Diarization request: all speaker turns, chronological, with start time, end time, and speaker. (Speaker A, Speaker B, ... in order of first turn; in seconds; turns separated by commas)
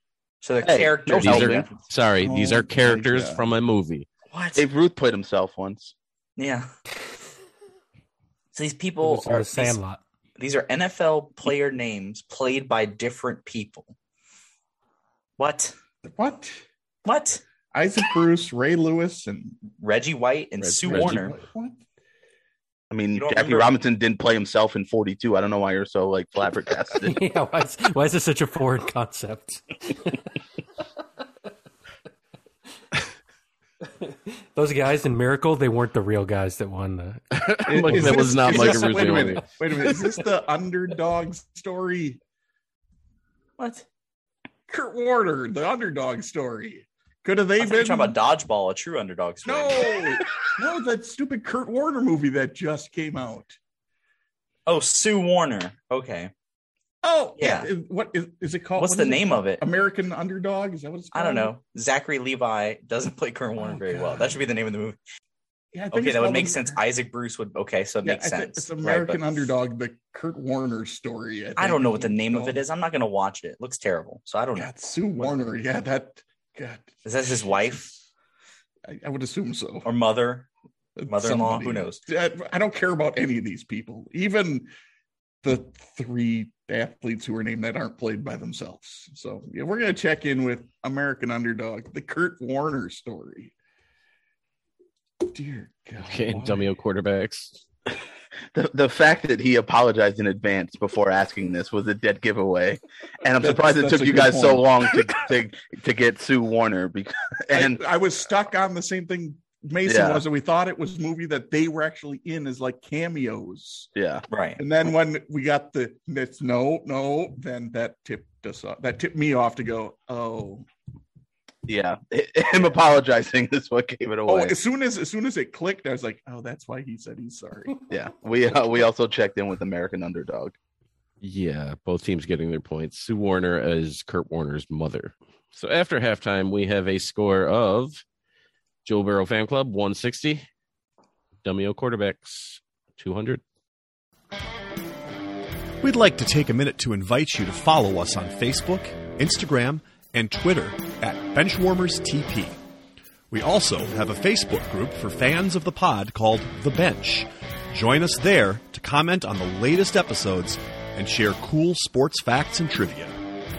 Speaker A: 0.4-1.9, Speaker B: 0.6-1.7, Speaker C: 1.2-4.1, Speaker D: 2.2-3.5, Speaker A: 4.3-4.7, Speaker B: 4.5-5.9, Speaker A: 6.4-6.7, Speaker A: 8.5-9.8, Speaker E: 9.0-10.0, Speaker A: 10.4-13.9, Speaker A: 15.4-15.8, Speaker D: 16.0-16.6, Speaker A: 17.1-17.4, Speaker D: 17.7-19.6, Speaker A: 19.8-21.4, Speaker D: 20.8-21.8, Speaker C: 20.9-21.3, Speaker B: 22.9-27.1, Speaker A: 23.1-23.7, Speaker E: 27.0-30.2, Speaker E: 34.0-39.3, Speaker C: 37.3-39.5, Speaker D: 37.7-42.2, Speaker A: 43.6-43.9, Speaker D: 44.7-48.2, Speaker A: 47.6-50.2, Speaker D: 49.5-53.6, Speaker A: 54.7-56.3, Speaker D: 57.0-61.5, Speaker A: 57.4-57.7, Speaker A: 58.8-59.6, Speaker A: 61.1-65.0, Speaker D: 63.6-64.4, Speaker D: 65.7-66.8, Speaker A: 65.9-69.4, Speaker D: 68.0-72.6, Speaker A: 71.6-75.3, Speaker D: 74.5-78.0, Speaker A: 77.0-77.9, Speaker D: 78.9-79.9, Speaker A: 79.8-80.5, Speaker D: 81.0-84.7, Speaker A: 81.1-82.0, Speaker D: 85.4-93.5, Speaker D: 95.2-96.7, Speaker C: 96.0-97.6, Speaker B: 98.5-107.8, Speaker D: 103.4-105.0, Speaker D: 107.5-113.9, Speaker B: 109.9-110.2, Speaker B: 114.0-114.2, Speaker A: 114.3-114.6, Speaker D: 114.6-120.7, Speaker B: 121.7-124.5, Speaker D: 124.3-127.8, Speaker B: 127.9-130.6, Speaker C: 131.2-138.0, Speaker C: 138.8-140.4, Speaker C: 141.4-143.4, Speaker F: 145.8-152.6, Speaker F: 153.3-163.2